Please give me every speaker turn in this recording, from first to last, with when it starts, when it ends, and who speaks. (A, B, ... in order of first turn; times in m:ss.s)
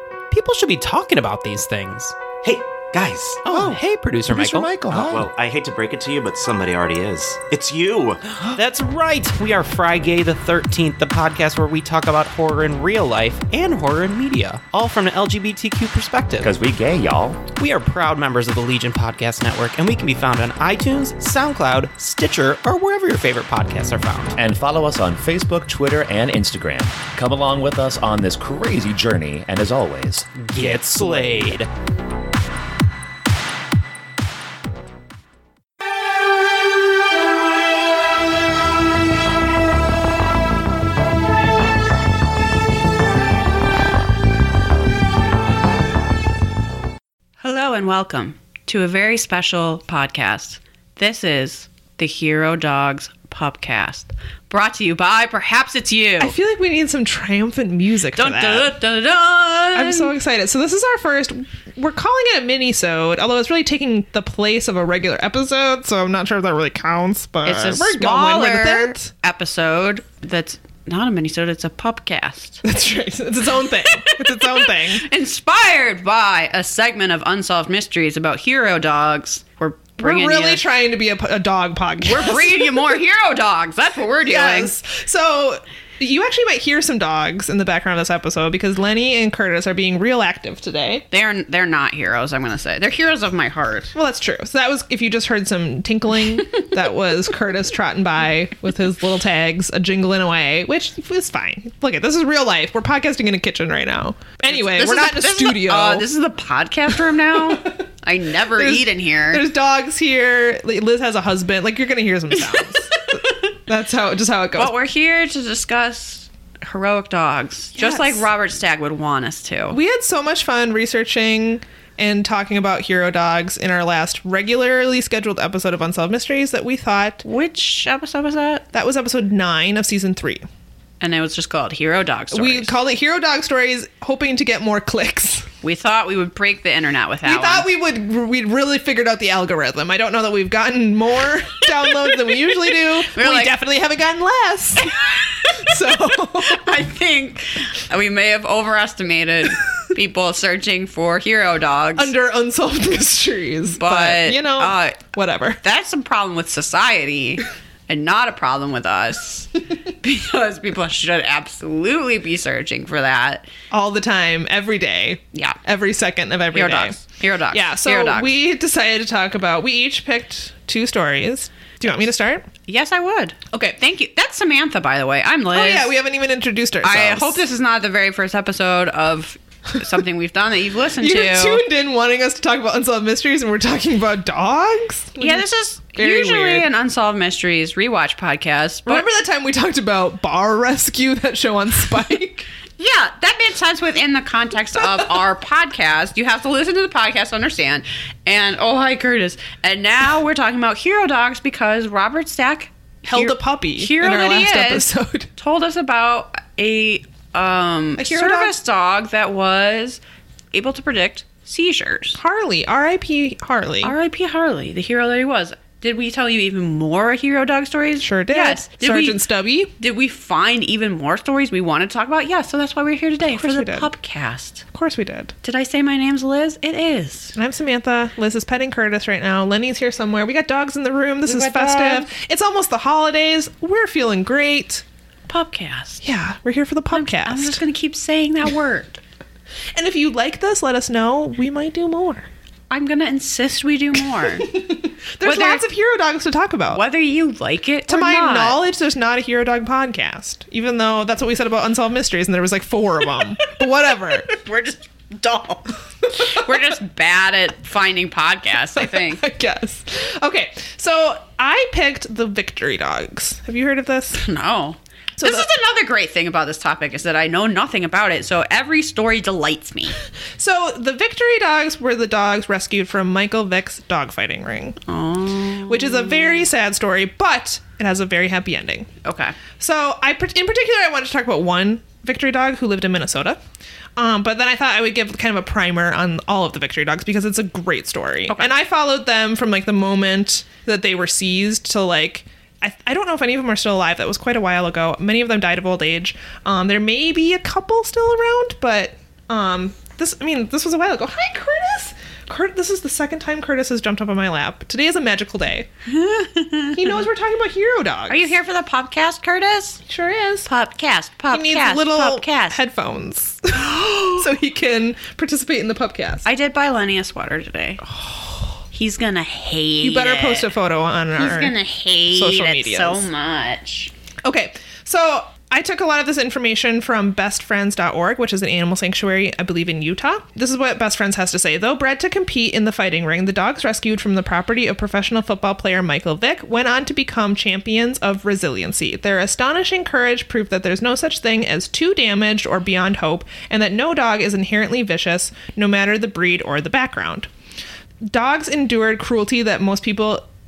0:00.3-0:02.1 A
0:02.4-0:03.5 B
0:03.4-0:04.7 A
0:03.5-0:05.3 C
0:04.9-0:08.4 B
0:08.5-0:16.5 A
0:16.4-0:17.4 C
0:17.5-0:24.3 A
0:24.3-0:31.3 C
0:30.4-0:31.7 A
0:47.4-0:56.3 D
0:56.2-0:58.8 E
0:58.2-1:00.1 D
0:59.7-1:09.1 E
1:07.4-1:12.6 D
1:12.6-1:15.0 E
1:14.0-1:20.6 D
1:20.0-1:23.0 E
1:22.0-1:24.7 D
1:24.2-1:31.0 E
1:31.1-1:33.9 D
1:33.9-1:46.1 E
1:44.5-1:49.4 D
1:47.4-1:47.8 E
1:48.6-1:54.7 E
1:52.9-1:53.5 D
1:54.6-1:59.8 D
1:57.8-1:58.2 E
1:59.7-2:07.2 E
2:07.2-2:08.6 D
2:08.7-2:10.4 E
2:11.0-2:12.7 D
2:12.3-2:15.5 E
2:15.6-2:17.7 D
2:17.2-2:25.0 E
2:22.7-2:23.5 D
2:24.8-2:32.1 D
2:25.6-2:26.6 E
2:32.0-2:35.6 E
2:33.8-2:35.0 D
2:35.6-2:43.5 D
2:43.7-2:52.5 E
2:46.5-2:48.3 D
2:52.7-2:55.9 D
2:53.5-2:53.8 E
2:55.5-2:57.4 E
2:56.8-3:01.6 D
3:01.0-3:06.6 E
3:05.2-3:09.0 D
3:08.9-3:12.5 E
3:12.8-3:30.0 D
3:23.1-3:25.3 E
3:28.0-3:28.5 E
3:30.5-3:32.2 D
3:32.2-3:33.9 E
3:33.8-3:39.2 D
3:38.0-3:39.7 E
3:39.8-3:44.6 D
3:43.2-3:43.9 E
3:44.7-3:45.3 E
3:45.4-3:47.4 D
3:47.4-3:54.8 E
3:51.2-3:52.1 D
3:55.3-3:56.0 D
3:56.0-3:57.6 E
3:56.9-3:59.0 D
3:59.8-4:02.3 E
4:02.7-4:04.5 D
4:04.3-4:06.8 E
4:05.2-4:05.6 D
4:06.7-4:08.6 D
4:07.9-4:14.3 E
4:14.2-4:19.2 D
4:18.8-4:24.2 E
4:24.2-4:30.0 D
4:25.2-4:25.5 E
4:30.4-4:34.8 E
4:34.9-4:36.4 D
4:35.7-4:38.9 E
4:39.0-4:39.4 D
4:39.6-4:43.4 E
4:44.0-5:05.7 E
5:05.9-5:07.0 D
5:06.7-5:08.3 E
5:08.1-5:09.8 D
5:09.9-5:10.5 E
5:10.4-5:12.6 D
5:11.3-5:16.2 E
5:13.5-5:14.2 D
5:16.2-5:17.8 D
5:17.8-5:18.4 E
5:18.7-5:20.5 D
5:19.8-5:21.5 E
5:21.2-5:23.9 D
5:22.1-5:23.1 E
5:24.2-5:47.3 E
5:48.1-5:50.2 E